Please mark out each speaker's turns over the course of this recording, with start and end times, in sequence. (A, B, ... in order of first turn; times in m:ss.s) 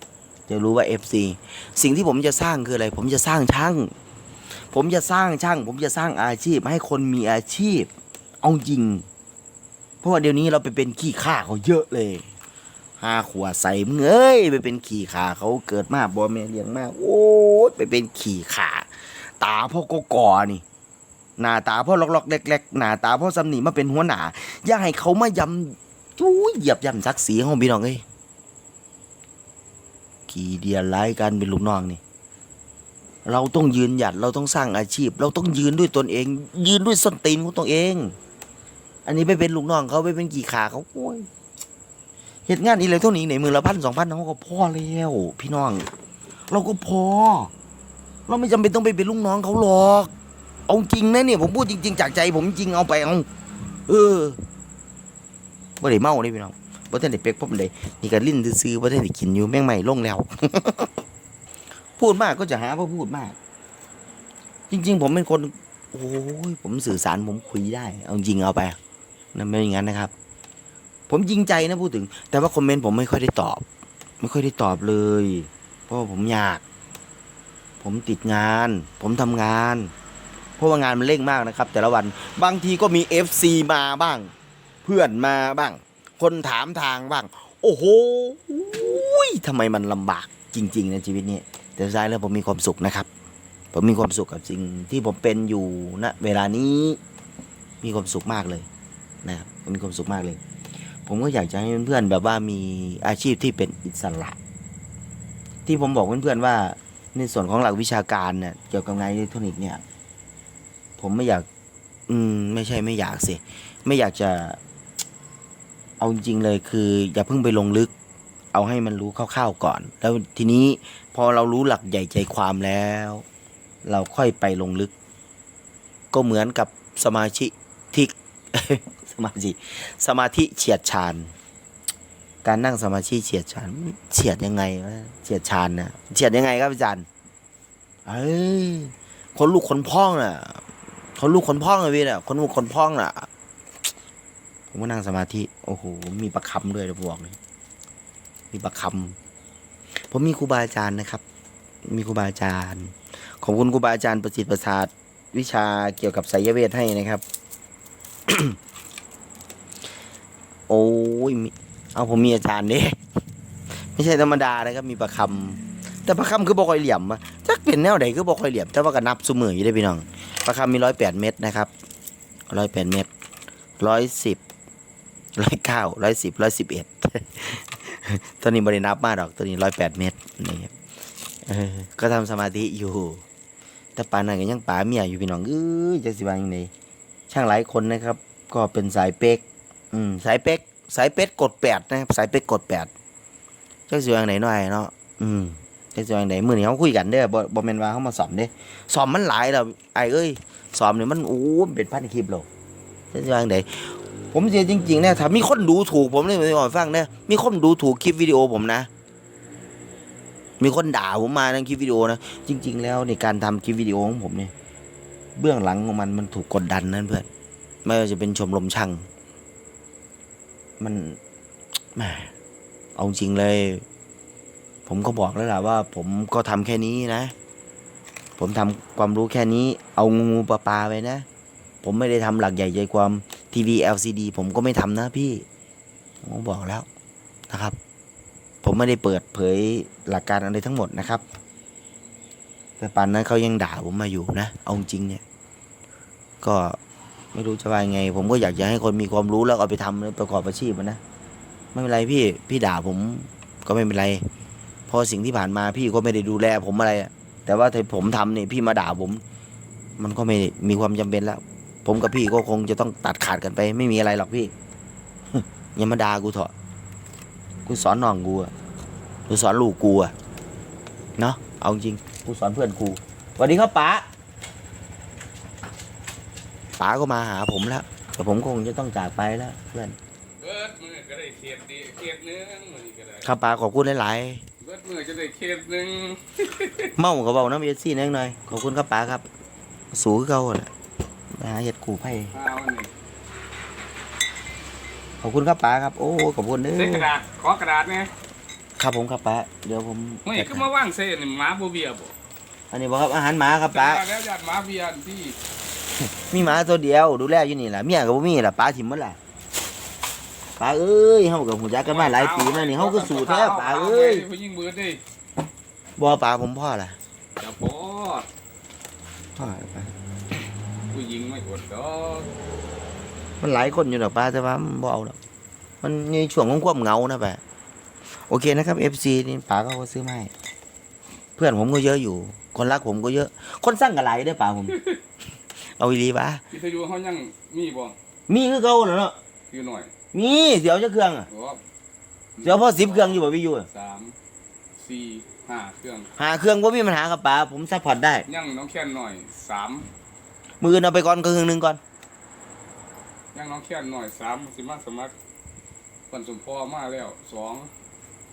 0:00.5-0:03.9 A
0:04.7-0:07.9 A
0:08.4-0:09.0 A
0:10.0-0:12.3 A
0:13.0-0:20.6 A
0:21.4-0:28.0 A
0:30.3-0:32.0 A
0:33.2-0:38.2 A
0:39.0-0:41.3 A
0:42.5-0:45.9 A
0:46.5-0:47.5 A
0:48.3-0:50.1 A
0:50.7-0:53.3 A
0:53.9-0:54.4 A
0:55.8-1:00.9 A
1:02.0-1:03.4 A
1:04.7-1:08.8 A
1:09.3-1:10.1 A
1:11.1-1:13.6 A
1:14.2-1:16.6 A
1:17.8-1:19.9 A
1:20.6-1:24.3 A
1:24.8-1:33.1 A
1:33.7-1:37.0 A
1:37.8-1:38.7 A
1:39.2-1:40.4 A
1:41.0-1:44.4 A
1:45.6-1:49.8 A
1:51.0-1:51.4 A
1:52.1-1:54.6 A
1:56.0-1:57.9 A
1:58.5-2:03.2 A
2:03.8-2:04.9 A
2:06.1-2:11.3 A
2:12.4-2:17.0 A
2:18.0-2:20.6 A
2:21.2-2:23.3 A
2:24.7-2:27.4 A
2:28.5-2:29.2 A
2:30.1-2:31.2 A
2:31.8-2:37.2 A
2:38.3-2:38.6 A
2:40.7-2:43.0 A
2:44.0-2:51.7 A
2:52.5-2:53.1 A
2:53.8-2:54.4 A
2:55.4-3:00.7 A
3:01.4-3:03.2 A
3:04.0-3:06.7 A
3:07.3-3:12.9 A
3:13.9-3:22.5 A
3:23.1-3:28.9 A
3:30.6-3:34.5 A
3:35.4-3:37.3 A
3:37.8-3:39.1 A
3:40.8-3:41.2 A
3:42.0-3:42.3 A
3:43.0-3:43.8 A
3:44.8-3:47.3 A
3:48.4-3:51.2 A
3:51.8-3:55.4 A
3:56.2-3:56.9 A
3:57.5-3:57.8 A
3:58.6-4:01.2 A
4:02.8-4:05.2 A
4:06.4-4:06.8 A
4:07.3-4:11.0 A
4:11.7-4:14.3 A
4:14.9-4:19.2 A
4:20.0-4:24.5 A
4:25.3-4:26.5 A
4:27.6-4:28.5 A
4:29.3-4:30.1 A
4:31.2-4:34.1 A
4:36.8-4:40.0 A
4:40.4-4:43.3 B
4:43.2-4:44.4 A
4:44.6-4:46.9 B
4:47.0-4:49.2 A
4:49.9-4:50.7 A
4:51.4-4:52.3 A
4:52.3-4:52.9 B
4:55.2-4:57.1 A
4:56.7-4:58.1 B
4:58.8-5:00.6 A
5:00.2-5:02.1 B
5:02.7-5:04.0 A
5:03.7-5:05.4 B
5:06.0-5:09.2 A
5:10.6-5:14.2 A
5:11.8-5:15.0 B
5:16.0-5:17.0 A
5:17.4-5:18.3 B
5:19.4-5:19.9 A
5:20.9-5:22.3 B
5:23.4-5:25.2 A
5:25.8-5:27.4 A
5:28.3-5:30.3 A
5:31.4-5:34.8 A
5:35.8-5:36.4 A
5:36.5-5:38.0 B
5:38.3-5:39.2 A
5:39.5-5:39.9 B
5:40.1-5:41.3 A
5:41.3-5:41.6 B
5:42.4-5:44.2 B
5:42.4-5:43.7 A
5:44.8-5:46.1 B
5:46.2-5:48.2 A
5:48.3-5:49.9 B
5:50.6-5:51.8 A
5:53.3-5:55.1 B
5:56.1-5:57.7 B